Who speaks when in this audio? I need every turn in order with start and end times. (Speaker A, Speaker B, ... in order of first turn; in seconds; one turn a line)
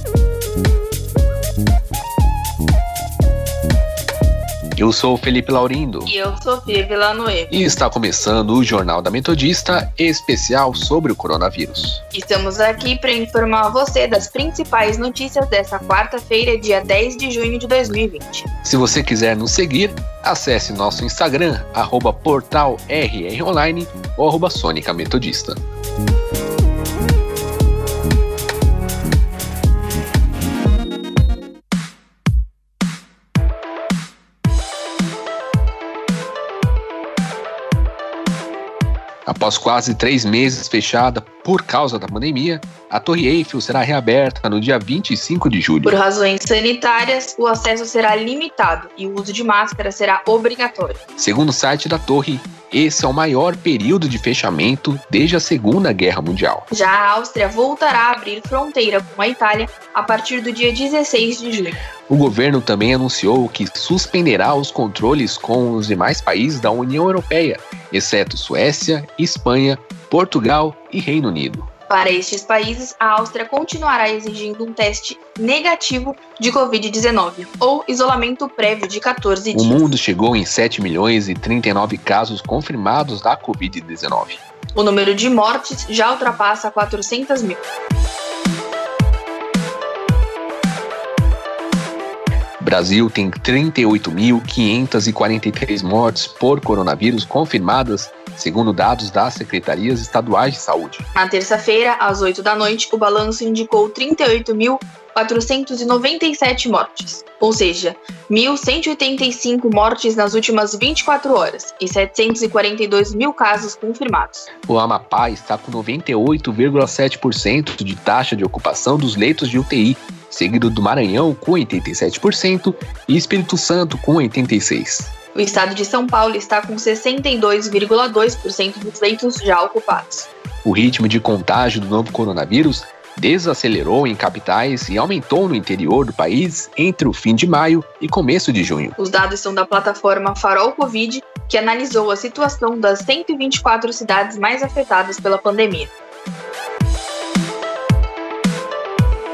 Speaker A: 4.8-6.1
Speaker B: 6.1-7.5
Speaker A: 7.5-12.0
Speaker B: 12.1-18.5
Speaker A: 18.6-25.6
Speaker A: 39.3-46.0
Speaker B: 45.8-51.0
Speaker A: 51.2-56.7
Speaker B: 56.7-61.8
Speaker A: 62.1-71.7
Speaker B: 71.9-79.9
Speaker A: 79.5-84.4
Speaker B: 84.8-87.6
Speaker A: 92.6-101.1
Speaker B: 101.2-114.5
Speaker A: 114.7-125.1
Speaker B: 125.3-130.3
Speaker A: 130.6-138.9
Speaker B: 139.0-145.9